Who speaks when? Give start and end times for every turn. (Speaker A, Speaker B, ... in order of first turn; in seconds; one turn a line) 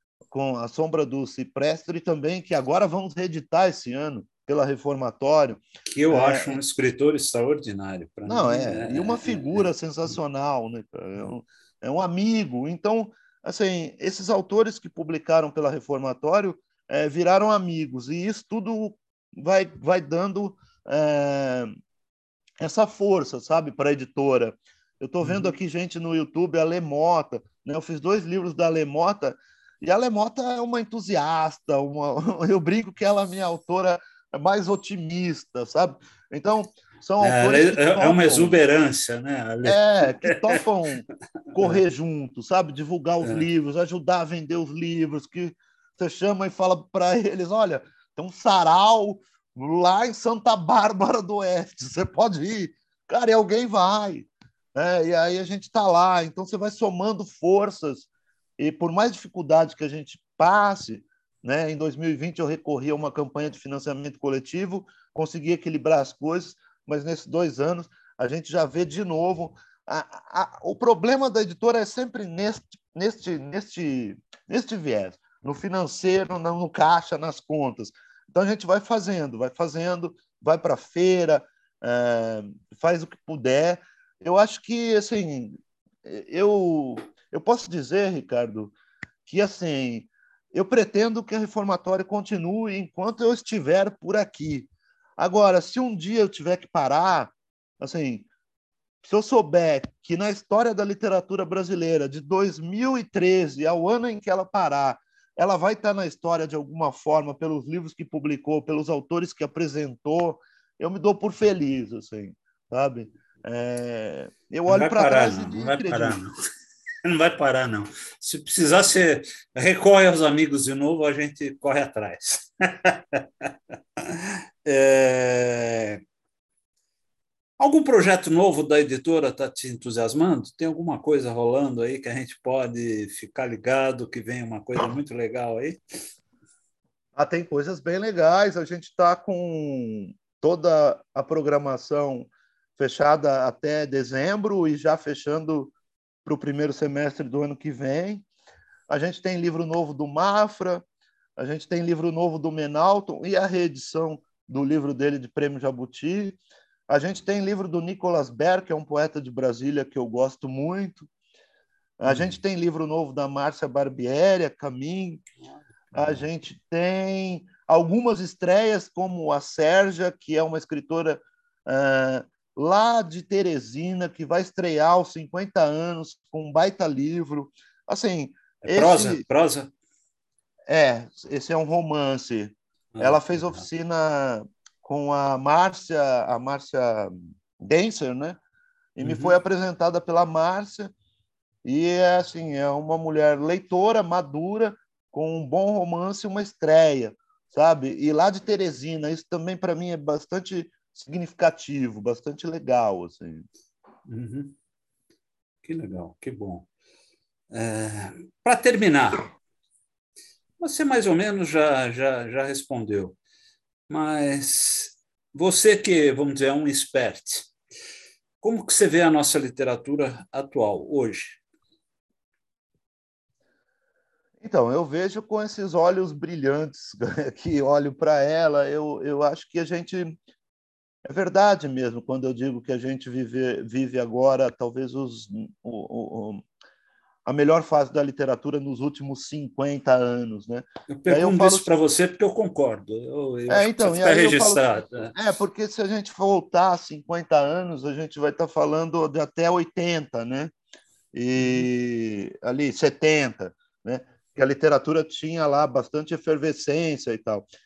Speaker A: 0.3-6.6
Speaker B: 5.9-9.7
Speaker A: 8.3-21.7
Speaker A: 22.6-38.6
Speaker B: 25.2-25.5
Speaker B: 37.2-40.6
Speaker A: 39.6-41.0
Speaker A: 41.5-58.1
Speaker A: 58.6-88.7
Speaker A: 89.3-98.3
Speaker A: 99.0-116.2
Speaker B: 114.7-116.4
Speaker B: 117.0-123.2
Speaker B: 124.7-126.0
Speaker B: 127.6-135.8
Speaker A: 137.2-145.7
Speaker A: 146.2-148.2
Speaker A: 148.9-150.8
Speaker A: 151.4-156.4
Speaker A: 156.9-161.1
Speaker A: 162.0-165.2
Speaker B: 162.1-162.4
Speaker A: 165.9-179.2
Speaker B: 178.6-179.7
Speaker A: 180.7-188.4
Speaker B: 182.9-183.6
Speaker A: 189.0-190.9
Speaker B: 189.0-189.3
Speaker A: 191.6-203.5
Speaker B: 204.1-204.5
Speaker B: 205.6-206.7
Speaker B: 207.5-209.3
Speaker B: 210.6-213.2
Speaker B: 213.9-217.5
Speaker B: 218.4-221.4
Speaker A: 224.4-230.2
Speaker A: 231.1-236.4
Speaker A: 237.3-241.7
Speaker B: 240.9-245.1
Speaker A: 243.5-250.5
Speaker A: 251.1-257.4
Speaker B: 251.4-251.7